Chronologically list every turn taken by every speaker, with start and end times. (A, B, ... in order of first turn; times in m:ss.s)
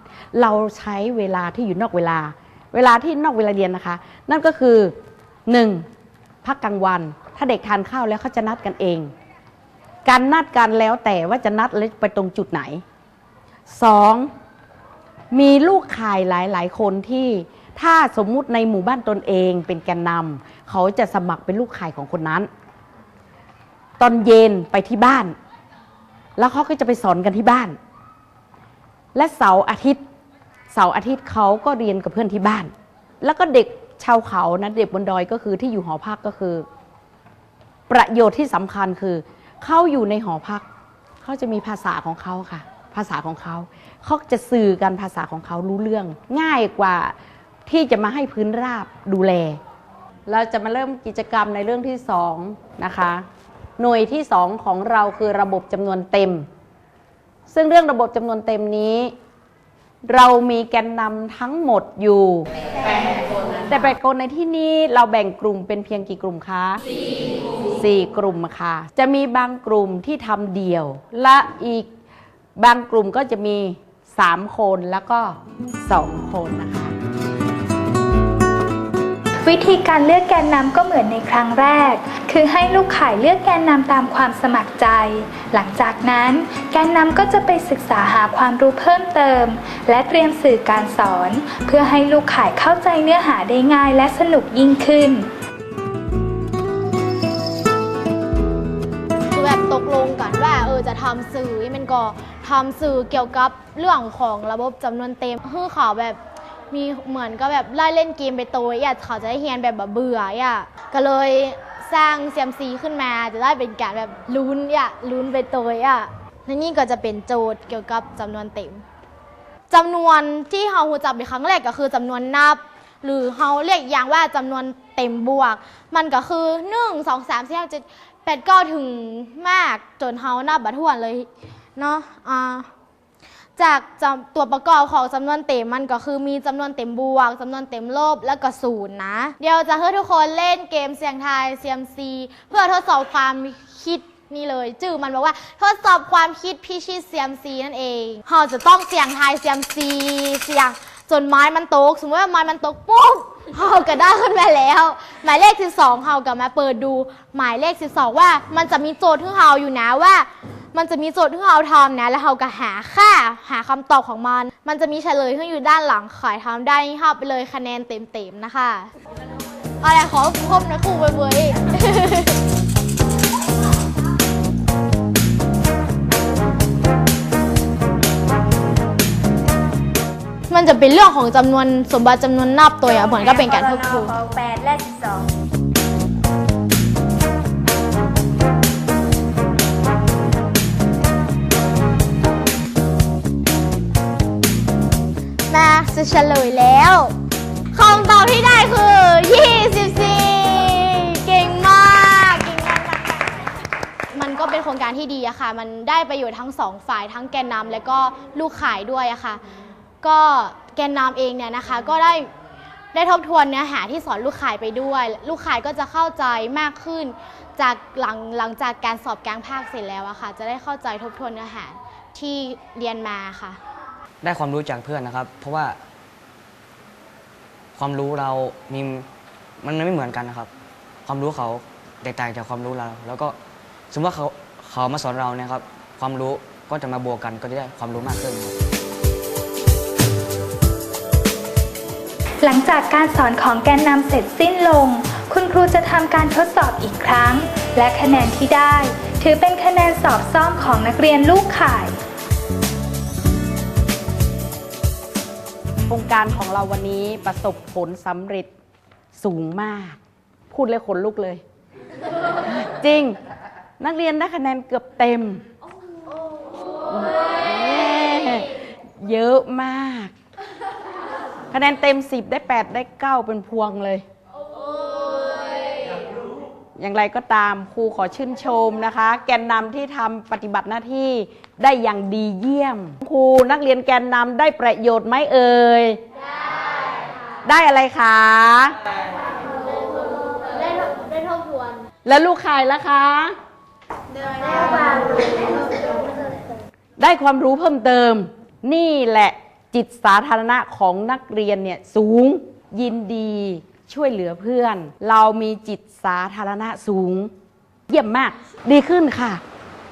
0:00.3-0:04.9 A
0:05.5-0:05.8 A
0:06.4-0:09.1 A
0:10.0-0:12.8 A
0:13.7-0:14.3 A
0:15.3-0:22.5 A
0:24.0-0:25.3 A
0:26.4-0:27.8 A
0:29.1-0:30.0 A
0:30.7-0:32.7 A
0:33.2-0:36.6 A
0:37.9-0:40.6 A
0:41.2-0:47.1 A
0:47.7-0:49.6 A
0:50.3-0:53.2 A
0:53.8-0:56.5 A
0:57.5-0:59.1 A
1:00.1-1:02.5 A
1:03.6-1:06.8 A
1:07.7-1:11.9 A
1:12.6-1:16.9 A
1:19.4-1:35.3 B
1:39.3-1:46.2 C
1:46.7-1:58.8 C
1:59.7-2:12.7 C
2:13.6-2:48.9 C
2:49.8-2:52.4 C
3:00.5-3:04.1 C
3:02.8-3:05.3 D
3:15.5-3:17.1 C
3:17.7-3:23.5 C
3:24.1-3:29.4 C
3:30.0-3:32.3 C
3:32.9-3:43.6 C
3:44.2-3:45.8 E
3:47.8-3:49.1 E
3:49.6-3:50.5 E
3:51.0-3:53.4 E
3:53.9-3:58.6 E
4:02.4-4:12.0 B
4:15.9-4:18.5 A
4:19.2-4:20.0 A
4:20.5-4:21.4 A
4:22.4-4:23.2 A
4:23.8-4:25.4 A
4:26.9-4:30.1 A
4:31.5-4:34.0 A
4:36.8-4:46.0 A
4:47.4-4:48.8 A
4:50.5-4:51.7 C
4:52.0-4:53.3 A
4:54.6-4:55.0 C
4:57.0-5:07.3 A
5:07.9-5:09.4 A